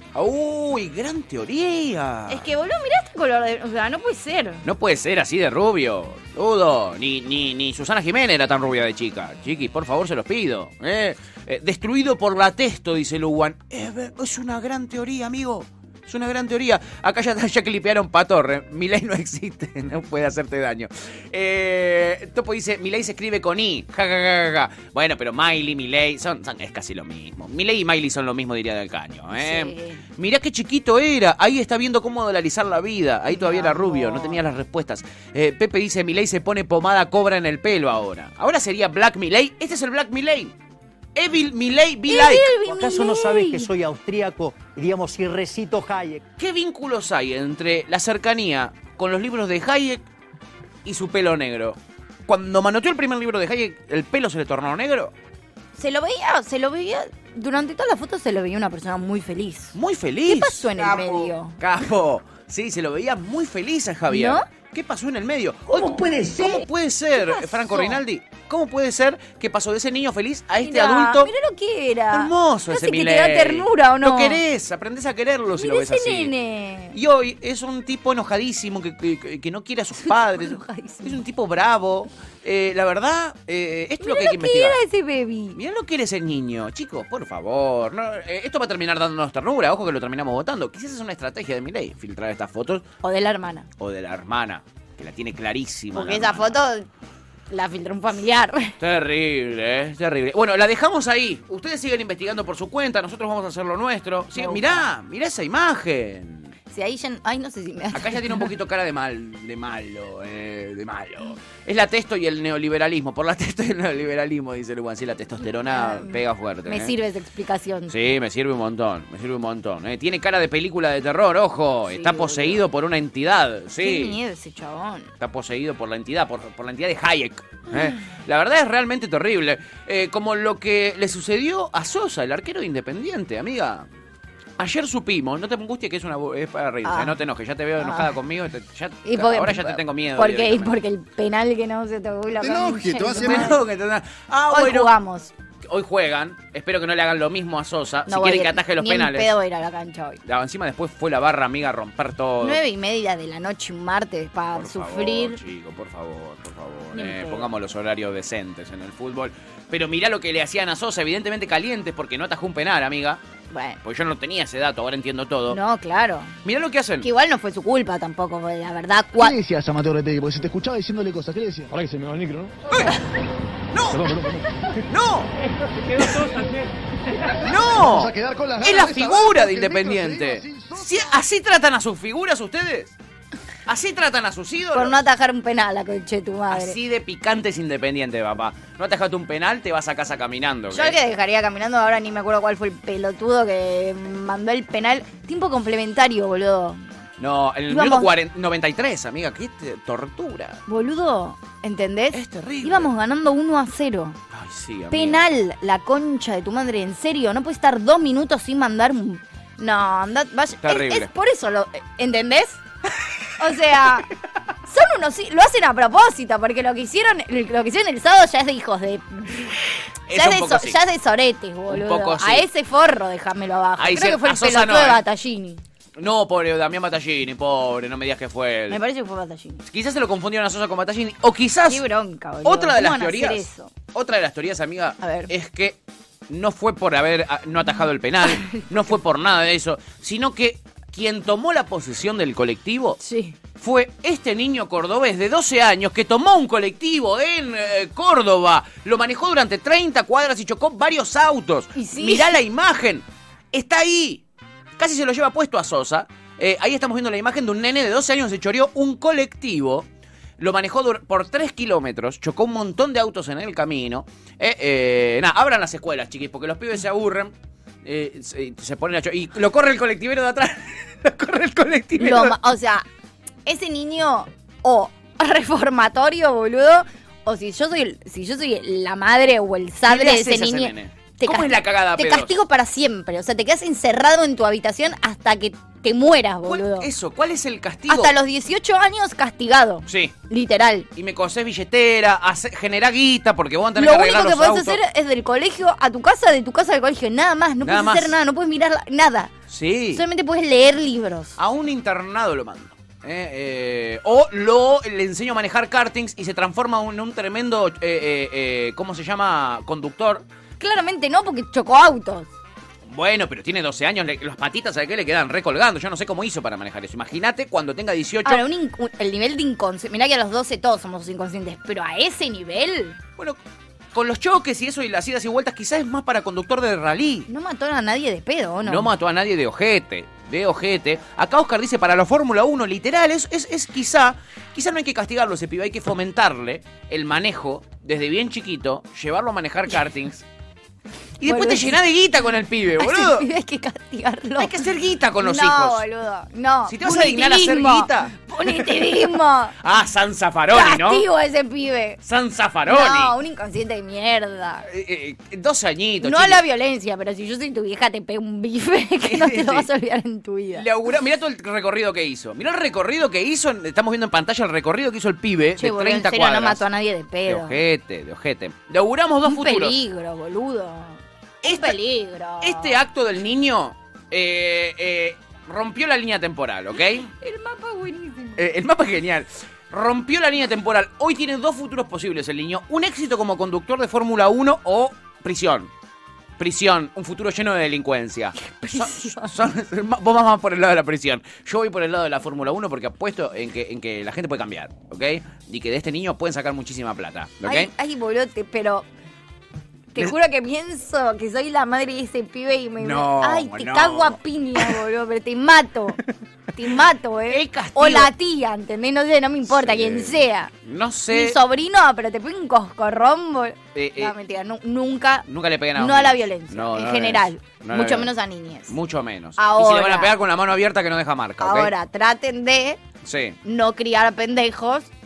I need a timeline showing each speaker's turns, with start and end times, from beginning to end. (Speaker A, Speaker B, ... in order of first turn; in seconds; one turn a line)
Speaker A: 0.1-2.5
Speaker B: 2.3-4.6
Speaker A: 4.6-40.5
Speaker B: 29.3-30.0
Speaker B: 33.3-34.4
Speaker A: 41.1-42.5
Speaker B: 42.1-43.7
Speaker C: 42.6-46.2
Speaker A: 46.4-50.0
Speaker A: 50.8-55.1
Speaker B: 55.8-61.6
Speaker A: 59.7-71.3
Speaker B: 64.1-64.4
Speaker B: 65.7-68.0
Speaker B: 70.6-74.4
Speaker A: 72.1-76.3
Speaker B: 75.6-77.0
Speaker A: 76.9-84.8
Speaker B: 80.0-81.2
Speaker B: 84.0-85.6
Speaker A: 85.5-92.8
Speaker B: 93.0-93.7
Speaker A: 93.8-96.5
Speaker B: 95.9-96.9
Speaker B: 97.5-98.8
Speaker A: 98.8-106.5
Speaker B: 104.3-104.9
Speaker B: 106.7-108.5
Speaker A: 107.9-116.9
Speaker B: 115.7-117.9
Speaker A: 117.9-124.2
Speaker B: 121.9-122.6
Speaker B: 123.8-125.1
Speaker A: 125.2-133.8
Speaker A: 134.6-140.7
Speaker B: 136.8-137.2
Speaker B: 137.8-138.1
Speaker B: 139.0-143.6
Speaker A: 142.9-144.9
Speaker B: 144.5-145.3
Speaker A: 145.7-149.3
Speaker B: 148.1-150.2
Speaker A: 150.2-152.6
Speaker B: 152.4-155.4
Speaker A: 154.5-163.2
Speaker B: 156.9-157.5
Speaker B: 163.5-163.8
Speaker A: 163.8-165.6
Speaker B: 165.5-166.3
Speaker A: 166.4-167.1
Speaker B: 167.0-169.4
Speaker D: 169.2-172.4
Speaker A: 173.7-174.2
Speaker A: 174.8-175.3
Speaker A: 176.0-176.4
Speaker A: 177.4-182.9
Speaker D: 177.8-180.9
Speaker A: 183.7-185.0
Speaker B: 184.7-186.8
Speaker A: 186.5-191.0
Speaker B: 190.7-196.8
Speaker A: 197.2-200.6
Speaker B: 197.7-198.1
Speaker B: 200.7-204.2
Speaker A: 202.1-202.9
Speaker A: 204.3-205.2
Speaker B: 204.9-212.6
Speaker A: 210.6-211.1
Speaker B: 213.4-214.1
Speaker B: 214.7-219.6
Speaker A: 220.1-220.8
Speaker B: 220.1-225.6
Speaker A: 221.7-222.4
Speaker A: 223.8-225.0
Speaker A: 226.0-228.8
Speaker B: 228.7-229.6
Speaker A: 229.7-231.8
Speaker B: 231.7-233.7
Speaker A: 232.4-235.8
Speaker B: 235.0-235.3
Speaker A: 236.3-243.0
Speaker B: 238.3-238.7
Speaker B: 243.0-243.3
Speaker A: 243.6-254.2
Speaker B: 251.8-252.4
Speaker A: 254.8-259.9
Speaker A: 260.4-267.3
Speaker A: 267.8-272.4
Speaker B: 272.0-272.9
Speaker B: 273.4-286.9
Speaker A: 279.9-282.3
Speaker A: 286.4-288.1
Speaker B: 287.9-290.9
Speaker A: 289.9-290.1
Speaker A: 290.9-294.8
Speaker B: 293.8-299.3
Speaker A: 297.6-298.1
Speaker A: 299.5-300.0
Speaker B: 299.9-301.4
Speaker A: 301.4-310.2
Speaker B: 310.6-312.3
Speaker A: 312.9-318.4
Speaker B: 318.2-323.0
Speaker A: 323.9-327.3
Speaker B: 327.3-328.9
Speaker A: 328.6-340.2
Speaker A: 341.2-343.3
Speaker B: 341.2-341.8
Speaker B: 342.8-344.7
Speaker A: 344.4-345.8
Speaker B: 345.2-349.6
Speaker A: 346.7-348.9
Speaker A: 349.6-351.0
Speaker B: 350.5-352.0
Speaker A: 352.0-353.1
Speaker B: 352.7-354.7
Speaker A: 354.7-356.4
Speaker B: 356.0-360.6
Speaker A: 359.1-359.7
Speaker A: 360.5-366.6
Speaker B: 365.6-367.6
Speaker A: 367.2-369.7
Speaker B: 369.2-372.8
Speaker A: 371.4-371.8
Speaker A: 372.4-377.1
Speaker B: 377.2-378.4
Speaker A: 378.4-385.7
Speaker A: 386.4-397.7
Speaker B: 388.5-389.3
Speaker B: 397.4-398.9
Speaker B: 399.9-406.0
Speaker A: 402.8-404.8
Speaker B: 406.6-410.5
Speaker A: 407.3-408.1
Speaker A: 409.5-411.4
Speaker B: 411.1-418.8
Speaker A: 413.7-414.1
Speaker A: 415.3-418.1
Speaker A: 418.7-421.7
Speaker B: 419.4-420.1
Speaker B: 421.4-422.8
Speaker A: 423.0-423.4
Speaker B: 423.4-424.9